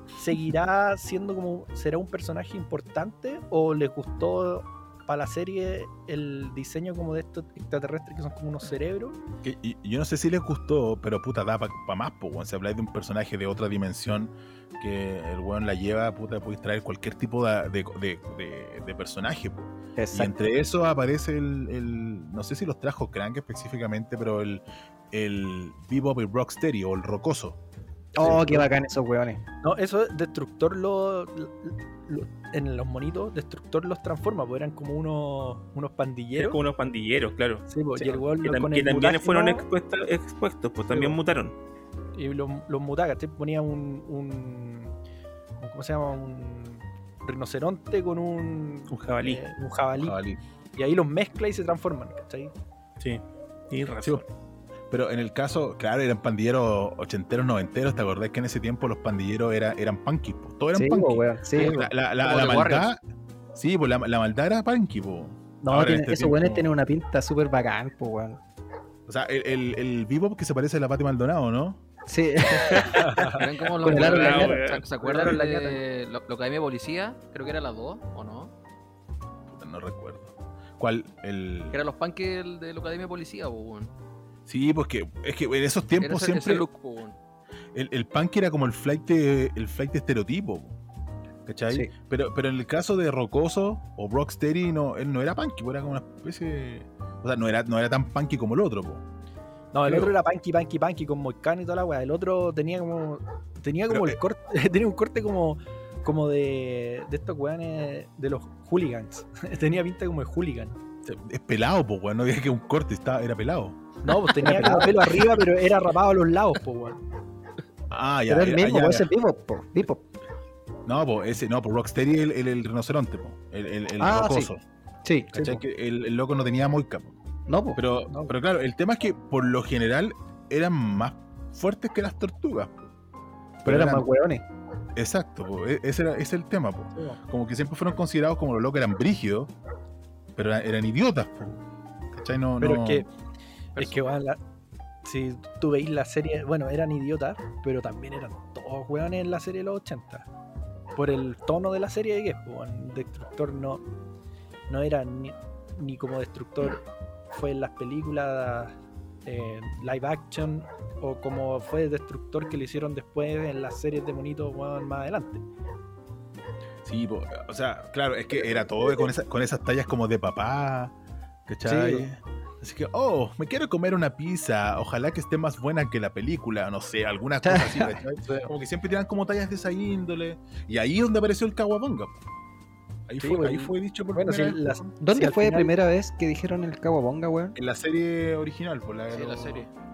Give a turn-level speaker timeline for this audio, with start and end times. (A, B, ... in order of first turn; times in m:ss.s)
0:00.2-0:09.2 A
0:09.4-0:27.6 B
0:20.0-0:20.4 C
0:28.2-0:29.4 C
0:28.2-0:28.6 B
0:29.6-0:36.6 A
0:36.4-0:41.6 D
0:37.7-0:39.6 A
0:40.9-0:41.2 A
0:42.2-0:45.0 A
0:45.6-0:50.2 A
0:48.9-0:49.4 D
0:50.0-0:50.4 B
0:50.8-0:52.5 A
0:53.0-0:54.3 D
0:54.9-1:03.0 B
1:00.7-1:01.8 C
1:01.6-1:02.9 E
1:03.6-1:06.7 B
1:05.6-1:08.4 C
1:09.1-1:11.8 B
1:12.1-1:13.0 C
1:12.7-1:13.0 D
1:13.0-1:13.5 A
1:13.4-1:18.5 E
1:13.8-1:14.6 C
1:13.9-1:15.4 D
1:15.0-1:15.8 A
1:19.5-1:21.8 B
1:21.7-1:23.9 E
1:24.5-1:26.7 B
1:26.0-1:27.2 E
1:27.7-1:30.8 B
1:31.5-1:39.0 B
1:39.7-1:50.8 A
1:39.8-1:40.1 B
1:43.9-1:44.2 B
1:51.0-1:55.0 B
1:54.0-1:57.0 A
1:54.4-1:55.0 C
1:57.9-1:59.1 B
1:58.3-2:00.0 C
2:00.9-2:04.6 B
2:04.0-2:04.5 C
2:05.0-2:05.6 C
2:05.3-2:07.2 B
2:07.5-2:07.8 C
2:07.8-2:12.9 B
2:08.1-2:08.3 A
2:13.6-2:14.0 B
2:13.6-2:14.4 C
2:15.0-2:19.5 B
2:17.0-2:17.2 A
2:20.4-2:21.6 B
2:22.1-2:23.1 B
2:22.6-2:23.1 A
2:23.8-2:24.2 E
2:23.8-2:24.4 A
2:25.0-2:30.3 A
2:31.0-2:33.8 A
2:34.7-2:45.4 A
2:46.8-2:50.9 B
2:48.4-2:49.1 A
2:51.5-3:02.2 B
2:51.7-2:52.0 C
2:57.4-2:58.0 C
2:58.2-2:58.5 A
3:03.1-3:04.9 B
3:03.2-3:05.7 A
3:05.0-3:07.6 C
3:07.6-3:09.7 B
3:09.1-3:09.7 E